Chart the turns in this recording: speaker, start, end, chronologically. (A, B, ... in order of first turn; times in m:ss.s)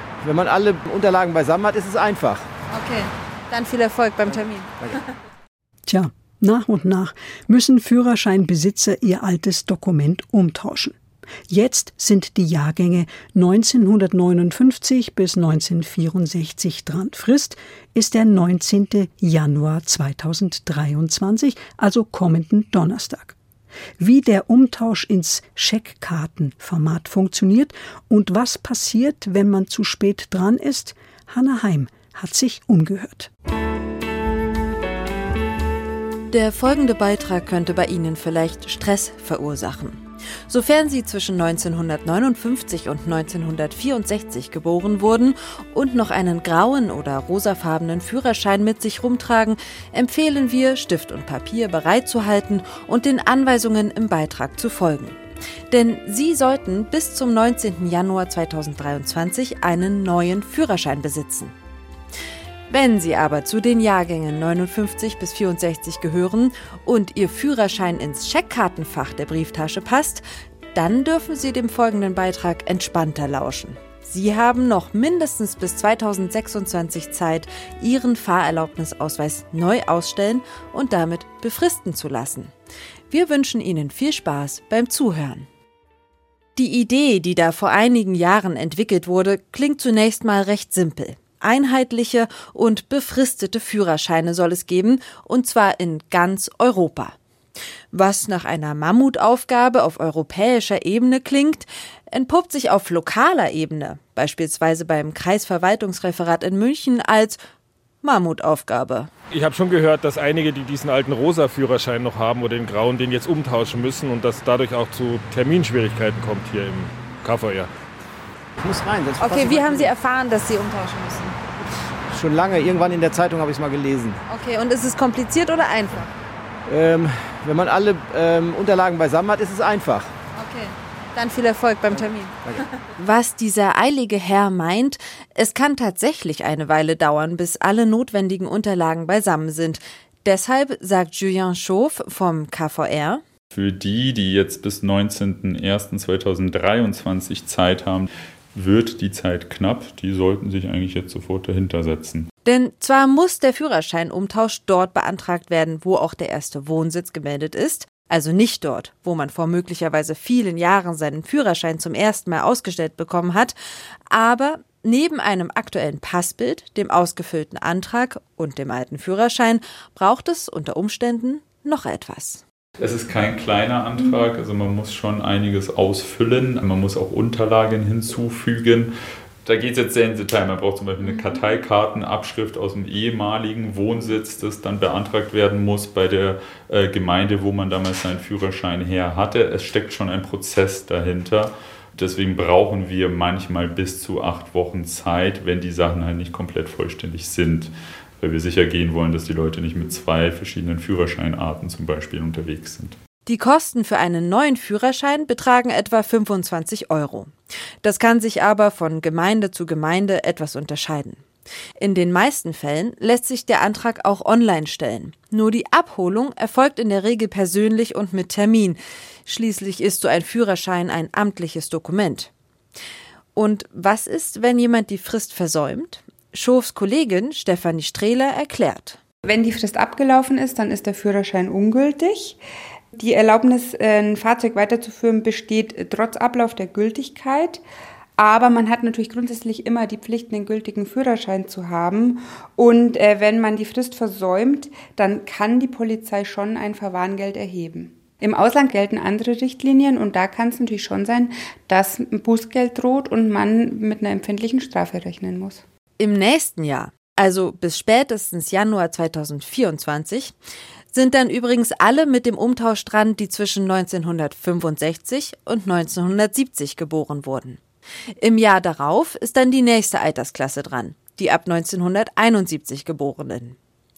0:00.2-0:02.5 A
0:02.7-0:04.9 B
0:05.9-0:11.0 C
0:11.5-0:23.4 C
0:24.0-0:33.3 C
0:36.3-0:55.2 B
0:55.7-1:01.5 B
1:02.7-1:10.2 B
1:10.7-1:22.5 B
1:23.1-1:25.5 B
1:26.6-1:37.2 B
1:37.9-1:47.4 B
1:48.0-1:49.1 B
1:49.3-1:57.7 D
1:58.6-1:59.9 A
1:59.2-2:01.3 B
2:02.1-2:04.2 A
2:04.3-2:06.1 B
2:06.6-2:10.1 A
2:10.3-2:23.2 B
2:23.5-2:32.3 E
2:32.4-2:43.5 B
2:44.1-2:52.4 B
2:52.8-2:58.9 E
2:59.4-3:23.0 E
3:23.2-3:31.2 B
3:31.8-3:42.3 B
3:43.4-3:49.0 B
3:49.2-3:52.4 F
3:52.9-3:57.6 F
3:58.2-4:15.6 F
4:16.0-4:20.3 B
4:20.9-4:27.6 B
4:28.2-4:33.6 B